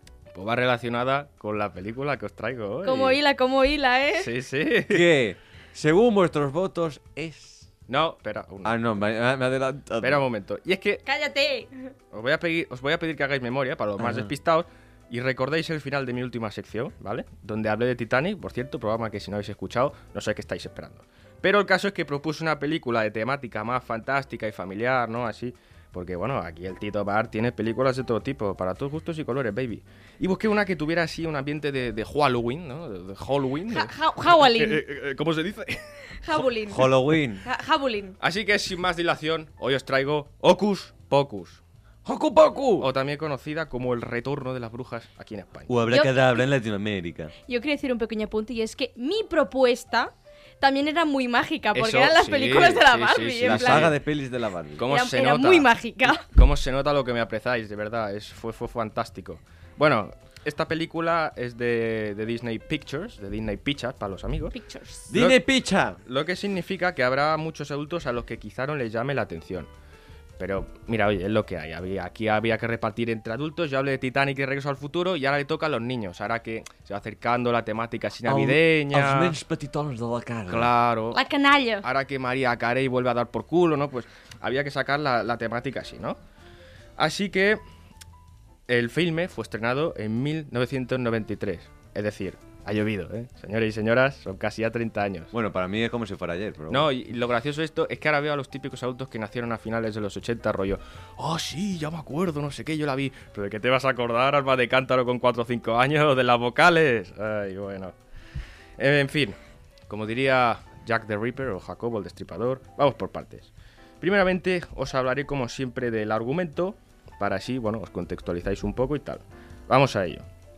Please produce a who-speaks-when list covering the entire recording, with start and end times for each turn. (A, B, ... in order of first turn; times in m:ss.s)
0:00.3-0:03.2 A
0:02.8-0:04.3 B
0:04.2-0:05.1 A
0:04.9-0:07.7 C
0:07.9-0:08.9 A
0:08.6-0:10.2 C
0:10.0-0:11.0 A
0:11.1-0:11.9 B
0:12.1-0:36.5 A
0:14.0-0:14.3 C
0:33.7-0:34.8 B
0:36.2-0:38.2 B
0:36.7-0:37.4 C
0:38.2-0:41.6 A
0:42.0-0:42.9 C
0:42.8-0:45.7 A
0:45.7-0:47.3 C
0:45.9-0:46.2 B
0:47.5-0:53.9 B
0:51.8-0:54.0 A
0:53.4-0:54.8 C
0:54.8-0:55.7 A
0:54.9-0:56.3 B
0:56.2-1:04.5 A
1:04.5-1:05.1 B
1:05.1-1:06.0 C
1:05.1-1:05.4 A
1:06.0-1:09.7 A
1:10.4-1:19.4 A
1:18.2-1:20.7 C
1:20.5-1:21.2 A
1:21.1-1:21.9 B
1:21.8-1:26.2 A
1:27.0-1:27.6 A
1:28.7-1:35.3 A
1:35.3-1:36.9 C
1:36.7-1:47.9 A
1:48.8-1:49.4 A
1:49.9-1:53.5 A
1:54.0-2:00.2 A